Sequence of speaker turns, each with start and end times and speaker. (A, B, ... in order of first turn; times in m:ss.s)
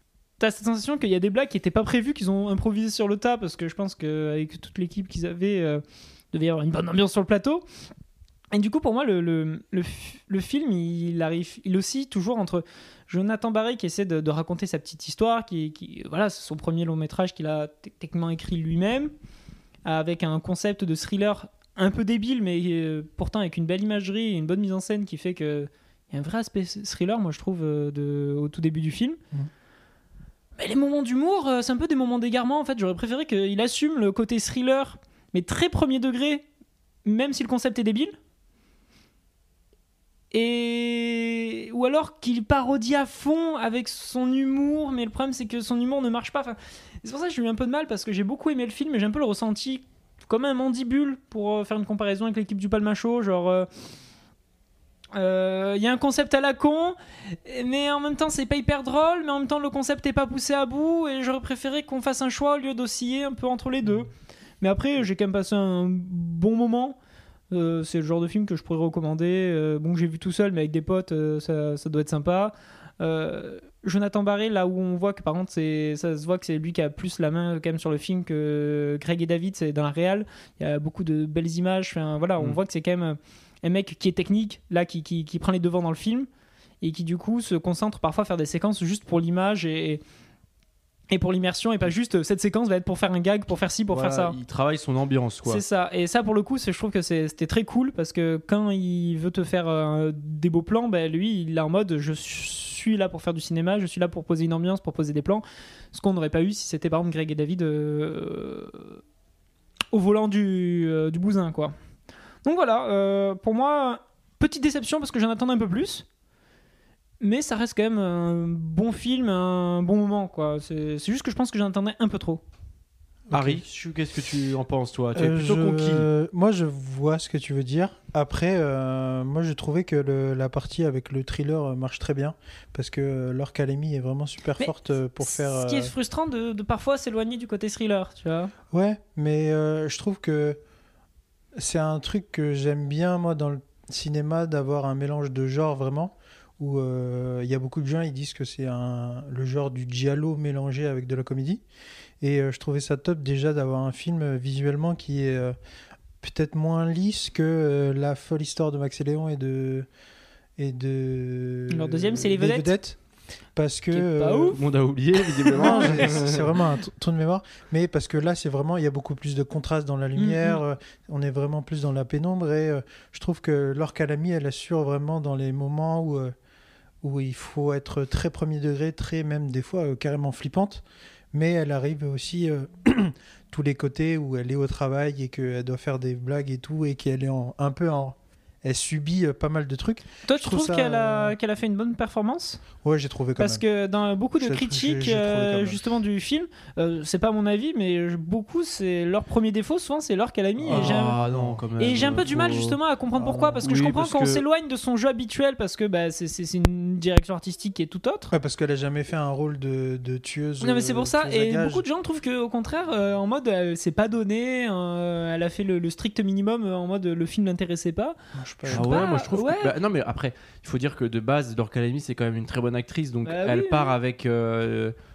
0:00.4-0:05.8 A
0:06.3-0:07.6 A
0:08.5-0:19.1 A
0:19.8-0:29.2 A
0:30.6-0:36.4 A
0:37.0-0:38.2 A
0:40.3-0:53.7 A
0:55.1-1:04.1 A
1:04.6-1:07.0 A
1:07.5-1:26.3 A
1:26.8-1:30.0 A
1:31.1-1:34.4 A
1:33.9-1:35.6 B
1:35.5-1:48.9 A
1:49.9-1:51.7 A
1:52.5-1:56.1 A
1:57.2-2:02.4 A
2:03.3-2:03.6 C
2:03.3-2:06.1 B
2:05.2-2:15.9 C
2:14.6-2:18.5 A
2:18.7-2:20.6 C
2:21.6-2:31.6 C
2:32.2-2:35.6 C
2:36.2-2:39.9 C
2:40.6-2:43.0 C
2:41.7-2:42.7 A
2:43.6-2:44.6 C
2:43.9-2:44.6 A
2:44.5-2:46.6 B
2:45.2-2:46.2 A
2:45.5-2:56.3 C
2:50.2-2:50.6 A
2:57.0-3:11.4 C
3:10.3-3:12.6 A
3:12.8-3:13.6 C
3:13.4-3:21.2 A
3:14.4-3:15.8 C
3:20.6-3:21.6 C
3:20.7-3:22.8 B
3:21.8-3:28.3 A
3:23.2-3:23.7 C
3:23.6-3:24.4 B
3:28.3-3:31.8 C
3:30.6-3:39.7 A
3:38.4-3:39.1 C
3:38.7-3:45.0 B
3:43.2-3:44.0 A